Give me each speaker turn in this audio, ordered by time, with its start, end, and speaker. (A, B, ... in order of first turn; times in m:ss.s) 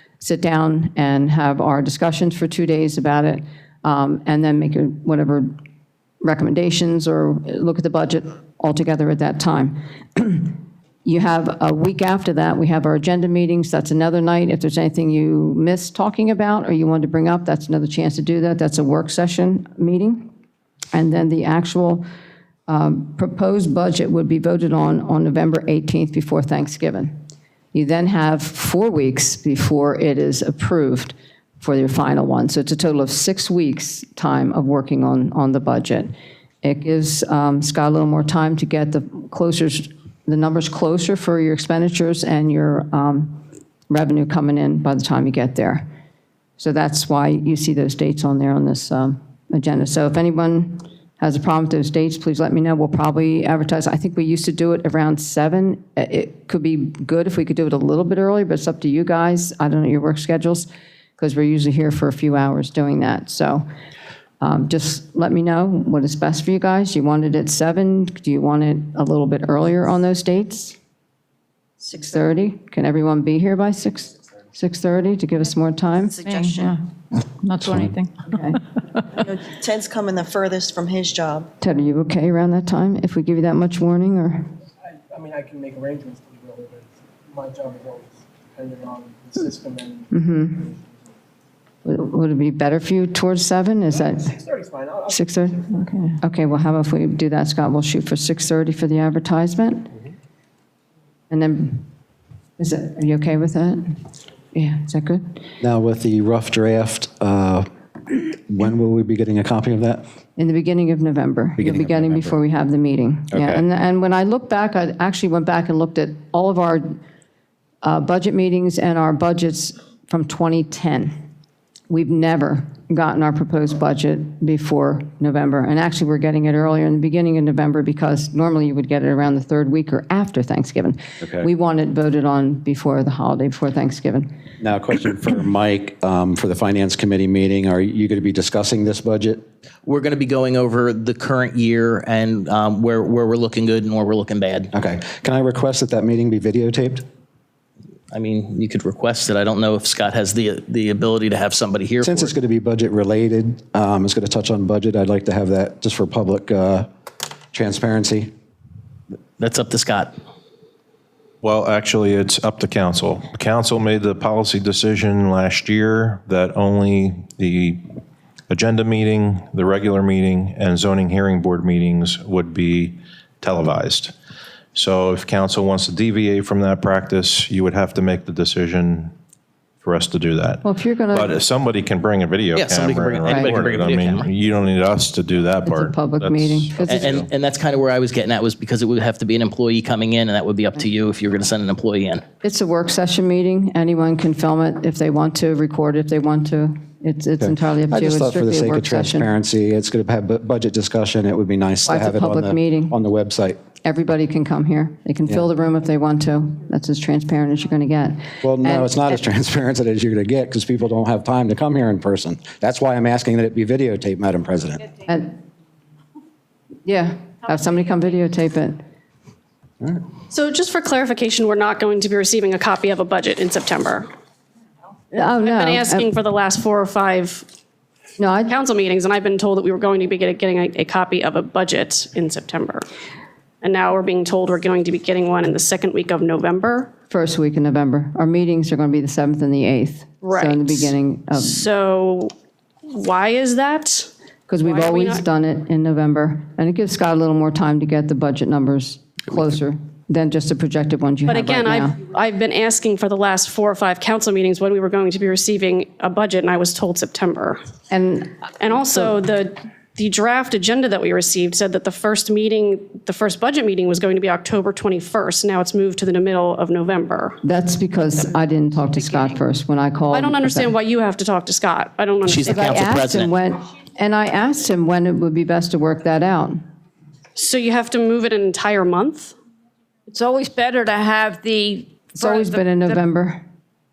0:00.2-0:05.5 A
0:06.2-0:20.3 A
0:20.9-0:22.0 A
0:22.7-0:27.2 A
0:27.7-0:36.1 A
0:36.6-0:45.9 A
0:46.6-1:03.6 A
1:04.4-1:10.8 A
1:11.8-1:12.1 B
1:12.0-1:16.3 A
1:16.2-1:16.5 B
1:16.2-1:18.2 C
1:18.2-1:18.6 A
1:19.2-1:21.5 B
1:21.6-1:24.5 A
1:24.8-1:31.1 D
1:30.1-1:30.6 A
1:31.8-1:34.3 A
1:33.9-1:35.9 D
1:35.1-1:39.9 A
1:41.3-1:41.9 A
1:42.6-1:44.0 A
1:44.5-1:45.4 A
1:45.6-1:50.0 E
1:50.4-1:57.0 A
1:51.6-1:52.3 E
1:53.3-1:53.6 E
1:57.8-2:01.1 A
2:01.9-2:14.3 A
2:11.2-2:11.5 E
2:14.6-2:19.4 E
2:19.8-2:24.7 F
2:24.7-2:27.0 E
2:28.1-2:32.3 F
2:32.0-2:36.9 E
2:37.5-2:38.3 E
2:39.4-2:40.2 F
2:41.4-2:47.8 G
2:48.5-2:54.1 G
2:54.7-2:59.1 G
2:59.8-3:07.3 G
3:00.6-3:01.3 A
3:02.5-3:04.3 F
3:05.6-3:07.2 A
3:06.8-3:12.2 F
3:12.4-3:19.3 A
3:17.4-3:23.6 E
3:21.9-3:22.9 A
3:23.8-3:29.2 A
3:28.4-3:34.9 E
3:35.1-3:35.4 A
3:36.8-3:38.8 A
3:40.3-3:44.1 H
3:45.1-3:46.1 A
3:45.3-3:47.5 H
3:48.2-3:48.5 A
3:48.5-3:52.8 H
3:53.6-3:56.9 H
3:57.1-4:01.6 A
4:00.2-4:02.3 H
4:02.9-4:04.1 H
4:04.5-4:12.0 A
4:04.6-4:05.2 H
4:11.3-4:17.6 H
4:17.9-4:19.1 A
4:18.6-4:27.4 H
4:27.4-4:30.7 A
4:28.9-4:29.3 I
4:30.1-4:32.9 H
4:32.3-4:33.3 F
4:32.5-4:36.6 A
4:37.4-4:39.4 H
4:40.1-4:43.0 I
4:42.2-4:43.4 A